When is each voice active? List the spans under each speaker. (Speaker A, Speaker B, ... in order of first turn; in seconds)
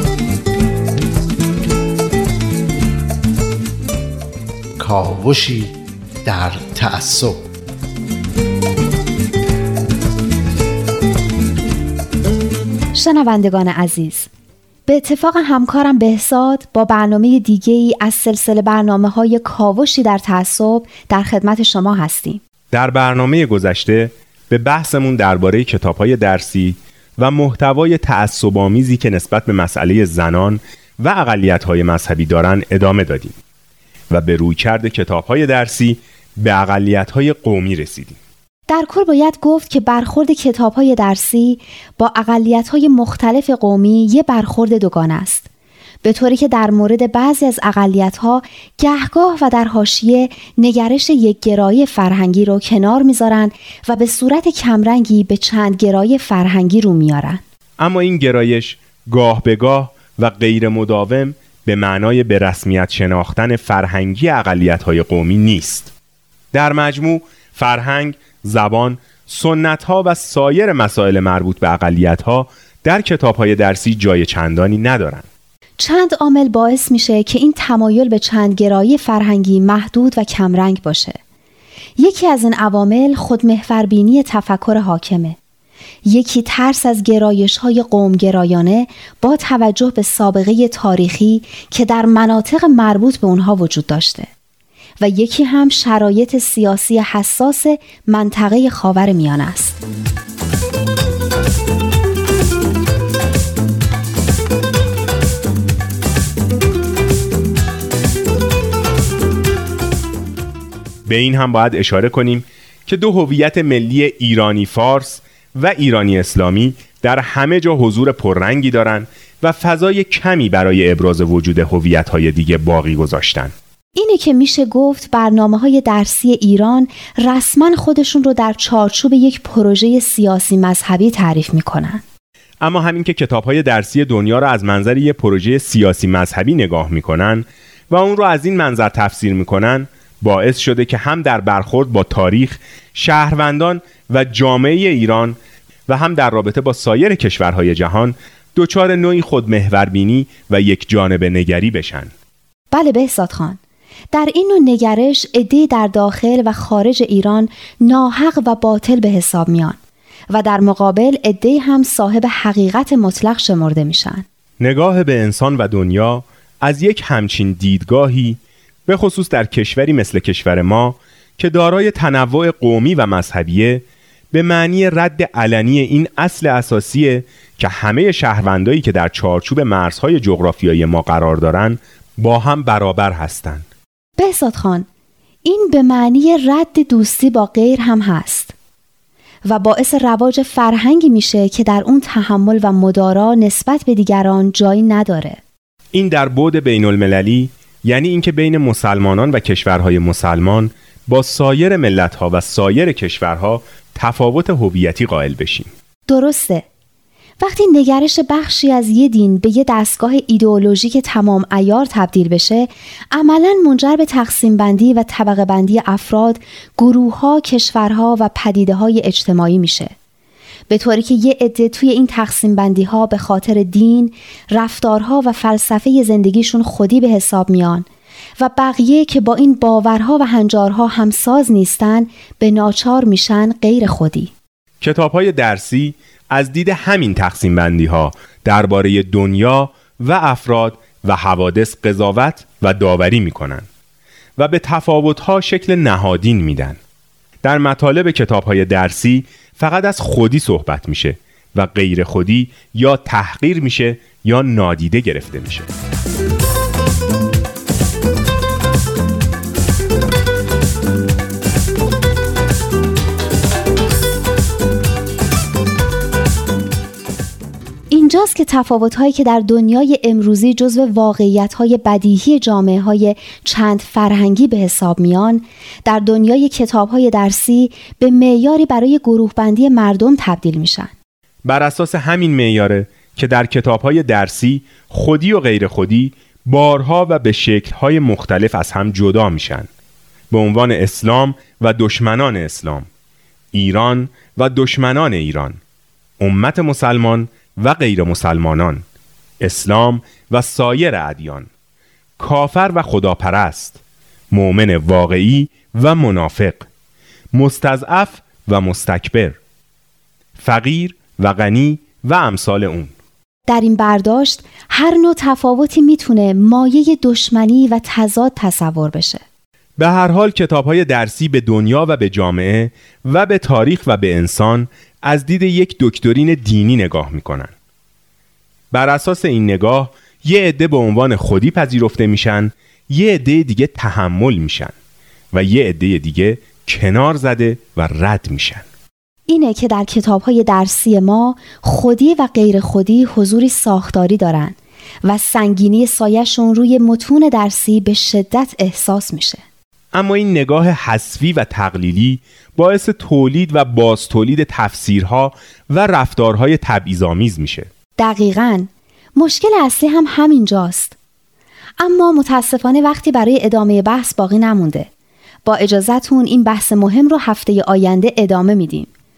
Speaker A: 4.8-7.4
Speaker B: 12.9-14.3, 14.9-22.4, 38.7-45.5, 46.0-57.4, 75.8-81.2, 82.0-85.4, 86.0-94.3, 95.0-99.8, 123.9-132.0, 152.7-153.6, 154.1-159.8, 160.3-164.2, 184.2-184.9, 185.4-188.5, 189.5-195.4, 206.1-206.7, 207.4-219.9, 220.7-227.8, 228.4-234.3, 267.9-280.9, 313.5-319.2, 339.3-349.4, 358.0-360.9, 361.8-364.9, 365.4-368.9
Speaker C: 22.7-33.4, 34.1-38.2, 57.8-65.9, 66.5-75.2, 111.0-123.5, 132.6-145.3, 145.9-152.1, 164.6-183.6, 195.9-205.7, 234.8-243.7, 244.4-246.8, 247.4-255.7, 281.4-289.7, 290.3-292.9, 293.5-295.6, 296.2-298.8, 299.4-301.5, 302.2-303.8, 304.3-306.6, 307.3-309.4, 310.4-312.9, 319.8-327.5, 328.7-334.7, 335.3-338.6, 349.9-357.7